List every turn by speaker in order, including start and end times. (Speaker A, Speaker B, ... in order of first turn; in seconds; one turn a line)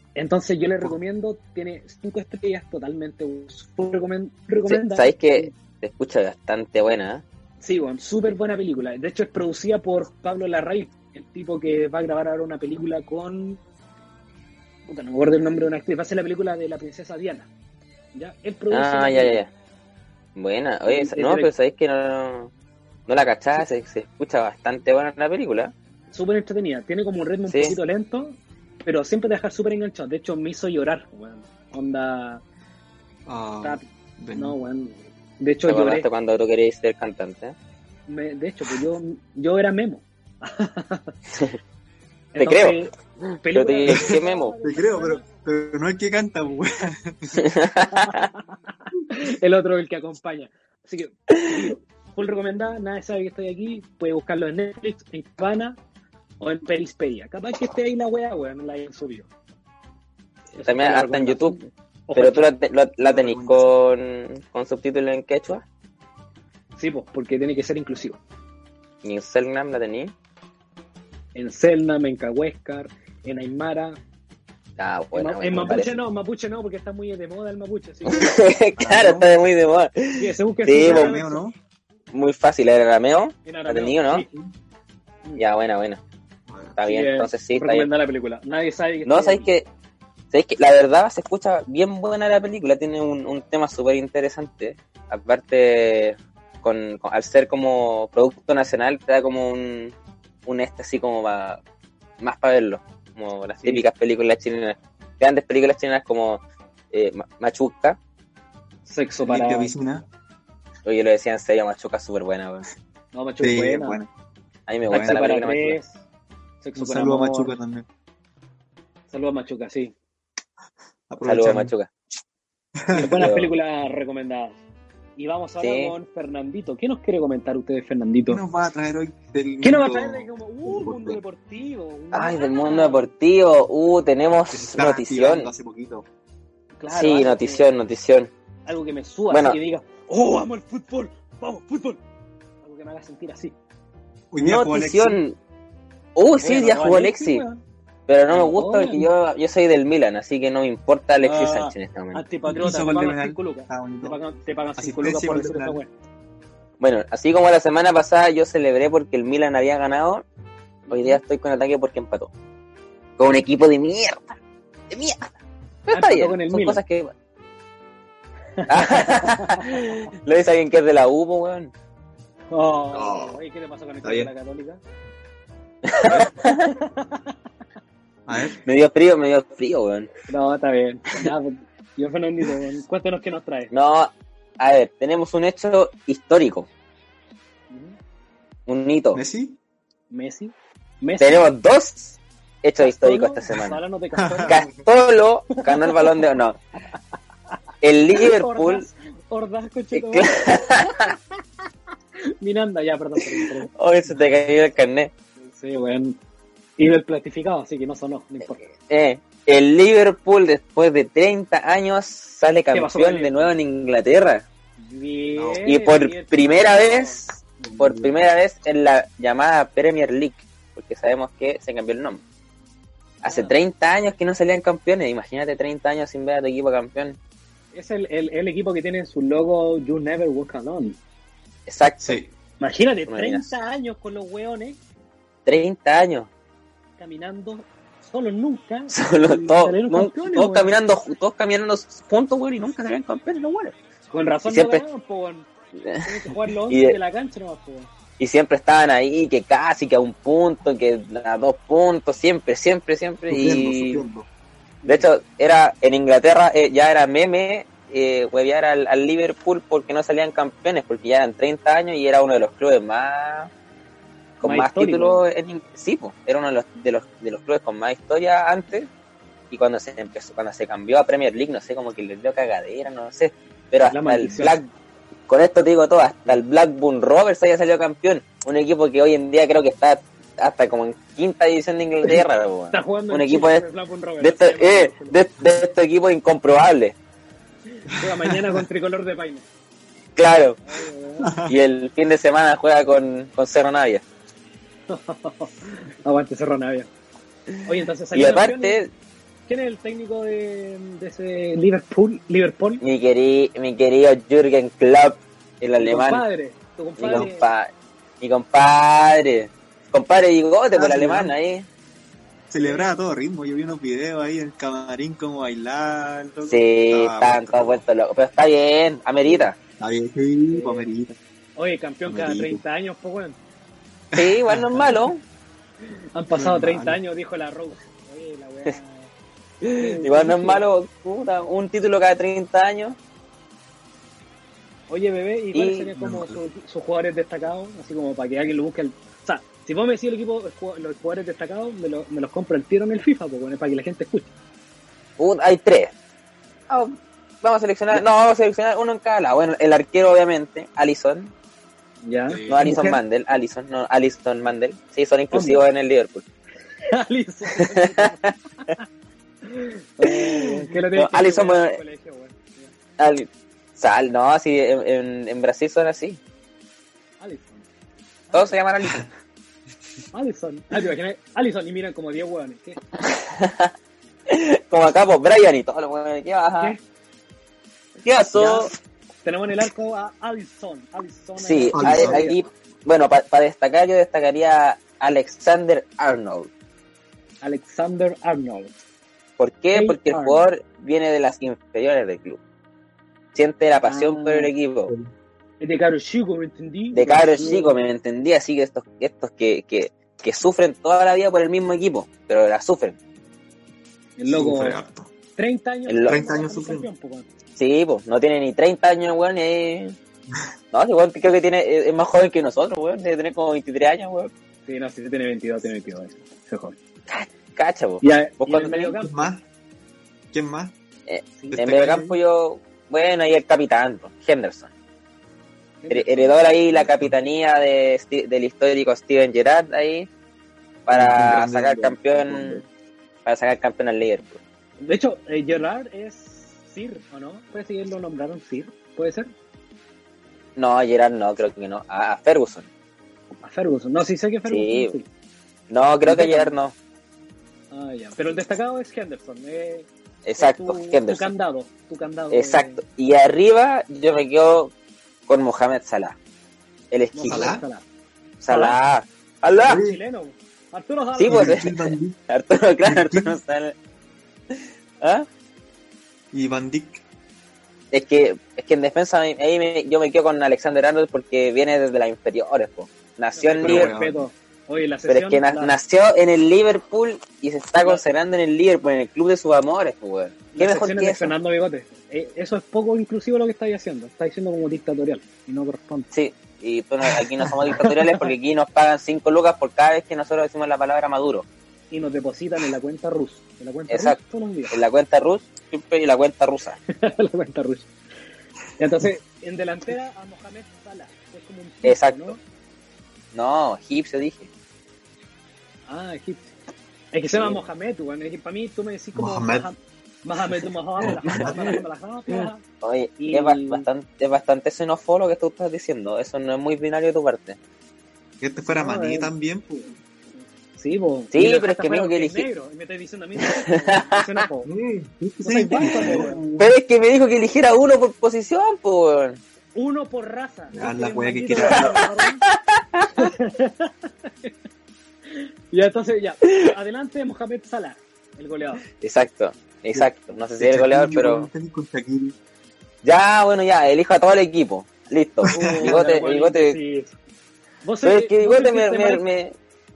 Speaker A: 0.1-5.5
Speaker B: 4.6-7.2
Speaker A: 7.6-13.6
Speaker A: 14.9-17.5
Speaker A: 18.1-19.5
Speaker B: 18.7-19.5
Speaker B: 20.4-22.5
Speaker A: 20.9-21.5
Speaker B: 23.1-25.7
Speaker A: 26.1-32.4
Speaker B: 27.5-27.8
Speaker C: 33.2-34.6
Speaker A: 33.6-36.1
Speaker B: 35.7-37.5
Speaker A: 38.1-41.1
Speaker A: 42.3-45.2
Speaker B: 42.4-42.8
Speaker B: 43.5-44.5
Speaker C: 44.6-47.5
Speaker B: 47.4-48.3
Speaker A: 47.9-48.4
Speaker A: 49.0-55.8
Speaker A: 56.4-59.3
Speaker A: 60.5-61.6
Speaker B: 60.6-61.6
Speaker A: 62.1-62.5
Speaker B: 62.1-65.6
Speaker C: 63.0-63.7
Speaker A: 66.8-68.2
Speaker B: 69.0-70.1
Speaker A: 71.3-74.0
Speaker B: 74.8-76.0
Speaker A: 75.1-78.4
Speaker B: 78.1-81.2
Speaker C: 78.8-79.3
Speaker A: 80.2-81.4
Speaker C: 80.7-81.5
Speaker B: 82.1-84.2
Speaker A: 83.5-84.3
Speaker B: 85.4-86.0
Speaker C: 86.5-86.8
Speaker B: 86.8-87.9
Speaker A: 86.8-89.5
Speaker B: 89.0-89.7
Speaker B: 90.3-99.9
Speaker B: 100.5-101.6
Speaker B: 102.2-106.4
Speaker B: 106.9-108.0
Speaker A: 108.8-109.7
Speaker C: 109.2-110.0
Speaker B: 110.8-112.7
Speaker A: 113.1-114.0
Speaker C: 113.4-114.1
Speaker B: 114.7-115.8
Speaker A: 114.9-116.0
Speaker A: 116.6-117.5
Speaker C: 116.7-117.8
Speaker A: 119.1-119.9
Speaker C: 121.1-121.7
Speaker B: 121.2-121.9
Speaker C: 122.8-123.2
Speaker A: 122.9-124.6
Speaker B: 123.0-123.5
Speaker A: 125.2-128.4
Speaker B: 125.6-125.9
Speaker C: 128.3-131.2
Speaker A: 129.6-133.1
Speaker B: 132.1-135.5
Speaker C: 134.5-136.1
Speaker A: 136.8-137.7
Speaker B: 136.9-138.3
Speaker A: 138.7-142.0
Speaker B: 139.3-139.6
Speaker A: 142.6-143.6
Speaker C: 144.3-145.2
Speaker B: 144.4-145.3
Speaker B: 146.2-147.4
Speaker A: 146.4-147.6
Speaker B: 148.1-152.2
Speaker A: 148.3-149.1
Speaker A: 151.2-155.9
Speaker C: 152.4-154.2
Speaker C: 154.8-155.8
Speaker B: 156.8-160.2
Speaker B: 160.9-162.3
Speaker A: 160.9-161.2
Speaker B: 163.2-164.4
Speaker B: 164.9-165.3
Speaker B: 165.9-167.1
Speaker A: 165.9-166.8
Speaker A: 168.6-169.7
Speaker B: 168.7-171.7
Speaker A: 172.5-174.8
Speaker C: 172.9-173.4
Speaker C: 174.0-174.3
Speaker B: 175.8-176.7
Speaker A: 176.4-177.3
Speaker C: 178.3-178.6
Speaker B: 178.6-180.1
Speaker A: 180.3-183.7
Speaker B: 183.7-186.7
Speaker A: 187.7-188.0
Speaker B: 188.7-189.2
Speaker C: 189.1-189.6
Speaker A: 190.1-191.5
Speaker B: 191.2-193.8
Speaker A: 192.8-194.6
Speaker C: 194.2-194.7
Speaker B: 194.5-196.6
Speaker A: 195.7-196.1
Speaker B: 197.8-198.8
Speaker A: 198.1-201.1
Speaker B: 199.9-201.1
Speaker A: 202.4-203.7
Speaker B: 203.7-205.1
Speaker A: 205.4-206.2
Speaker A: 206.8-208.6
Speaker B: 208.7-214.4
Speaker A: 212.7-213.5
Speaker A: 214.8-217.2
Speaker C: 215.3-215.7
Speaker B: 215.7-222.2
Speaker C: 217.6-218.2
Speaker B: 223.2-227.2
Speaker A: 223.2-223.5
Speaker A: 227.7-231.0
Speaker B: 231.7-232.2
Speaker C: 232.0-232.3
Speaker A: 232.6-234.8
Speaker B: 233.1-233.5
Speaker B: 235.4-236.3
Speaker A: 237.0-240.7
Speaker B: 238.9-243.7
Speaker A: 244.1-245.5
Speaker B: 244.5-244.8
Speaker A: 246.0-247.9
Speaker B: 246.7-247.0
Speaker B: 248.2-254.0
Speaker C: 253.3-254.3
Speaker B: 254.8-263.5
Speaker B: 264.4-268.9
Speaker A: 264.4-265.2
Speaker B: 269.5-274.6
Speaker A: 273.9-274.6
Speaker B: 275.3-283.6
Speaker A: 282.7-285.2
Speaker B: 284.2-286.9
Speaker A: 287.7-289.4
Speaker C: 288.0-288.6
Speaker B: 290.1-290.6
Speaker A: 290.6-291.3
Speaker C: 291.2-291.6
Speaker B: 291.5-294.0
Speaker A: 294.9-296.9
Speaker A: 297.6-298.8
Speaker B: 298.1-298.9
Speaker A: 299.5-302.8
Speaker B: 302.8-306.2
Speaker A: 305.8-307.4
Speaker B: 307.0-307.7
Speaker B: 308.2-311.7
Speaker C: 310.7-311.3
Speaker C: 312.5-317.8
Speaker A: 312.6-312.9
Speaker B: 316.5-319.6
Speaker C: 319.2-321.1
Speaker A: 320.5-320.8
Speaker A: 321.6-323.4
Speaker C: 322.1-322.6
Speaker C: 324.1-325.1
Speaker B: 324.1-325.2
Speaker A: 326.1-329.1
Speaker C: 326.3-327.0
Speaker B: 329.6-333.0
Speaker A: 329.6-330.6
Speaker A: 334.9-344.3
Speaker B: 335.5-335.9
Speaker C: 336.0-336.4
Speaker B: 345.2-345.9
Speaker B: 346.7-351.3
Speaker A: 352.0-353.0
Speaker C: 352.3-352.7
Speaker B: 352.5-356.2
Speaker A: 355.3-355.6
Speaker A: 356.9-358.8
Speaker B: 357.6-358.3
Speaker A: 359.4-362.7
Speaker B: 360.0-361.8
Speaker B: 363.0-366.2
Speaker A: 367.2-367.6
Speaker A: 368.3-368.6
Speaker B: 368.3-369.1
Speaker A: 370.1-372.8
Speaker B: 373.0-373.7
Speaker B: 374.3-376.8
Speaker B: 378.0-378.7
Speaker A: 378.3-378.7
Speaker A: 379.2-382.4
Speaker B: 381.4-386.5
Speaker C: 381.7-382.2
Speaker A: 387.4-388.7
Speaker B: 389.4-392.4
Speaker A: 389.7-390.4
Speaker B: 393.3-394.9
Speaker A: 393.8-394.5
Speaker A: 395.6-397.7
Speaker B: 396.9-403.0
Speaker A: 404.2-404.8
Speaker C: 404.2-405.1
Speaker A: 405.4-407.3
Speaker B: 405.9-406.2
Speaker C: 406.0-406.9
Speaker B: 407.6-409.9
Speaker B: 410.7-414.3
Speaker A: 414.6-416.8
Speaker B: 417.1-419.0
Speaker A: 418.0-419.2
Speaker C: 419.0-419.4
Speaker C: 420.3-420.7
Speaker B: 421.1-424.7
Speaker C: 421.5-422.2
Speaker A: 425.8-426.4
Speaker B: 425.9-430.1
Speaker C: 426.7-427.1
Speaker B: 430.9-432.6
Speaker C: 430.9-432.6
Speaker B: 433.2-434.4
Speaker A: 434.8-439.3
Speaker B: 440.6-442.7
Speaker A: 443.4-445.1
Speaker B: 444.4-444.9
Speaker B: 445.7-446.7
Speaker A: 446.0-446.5
Speaker A: 447.7-452.8
Speaker B: 450.2-451.3
Speaker B: 452.3-454.7
Speaker B: 455.3-456.1
Speaker B: 456.9-457.6
Speaker A: 457.1-457.8
Speaker C: 457.3-457.6
Speaker B: 458.4-459.8
Speaker A: 458.5-458.8
Speaker C: 459.6-460.0
Speaker A: 459.7-461.6
Speaker B: 461.1-463.7
Speaker C: 461.3-462.2
Speaker C: 462.8-463.4
Speaker B: 464.5-465.2
Speaker C: 466.3-467.0
Speaker B: 467.9-473.9
Speaker A: 473.4-475.7
Speaker C: 473.6-474.2
Speaker B: 475.1-481.3
Speaker A: 477.8-478.0
Speaker A: 480.5-486.1
Speaker B: 486.1-491.4
Speaker A: 491.9-494.8
Speaker B: 493.9-494.2
Speaker B: 494.7-496.8
Speaker A: 496.9-497.9
Speaker A: 498.8-502.4
Speaker B: 501.8-502.4
Speaker B: 503.3-504.5
Speaker A: 505.9-506.5
Speaker A: 507.1-512.6
Speaker C: 509.1-509.7
Speaker C: 511.0-511.8
Speaker B: 511.1-511.5
Speaker B: 512.8-517.6
Speaker A: 513.2-513.9
Speaker C: 518.4-520.0
Speaker A: 518.7-519.3
Speaker A: 520.8-524.7
Speaker B: 521.3-522.5
Speaker B: 523.5-524.2
Speaker C: 524.6-526.7
Speaker A: 525.4-526.4
Speaker B: 525.9-529.4
Speaker A: 529.8-532.4
Speaker C: 530.7-532.1
Speaker B: 531.6-531.9
Speaker B: 532.5-533.1
Speaker A: 533.1-534.5
Speaker A: 535.3-538.8
Speaker B: 539.0-541.5
Speaker C: 539.9-542.3
Speaker B: 543.0-546.8
Speaker C: 545.5-546.0
Speaker A: 545.5-547.1
Speaker A: 547.8-549.2
Speaker B: 548.0-549.5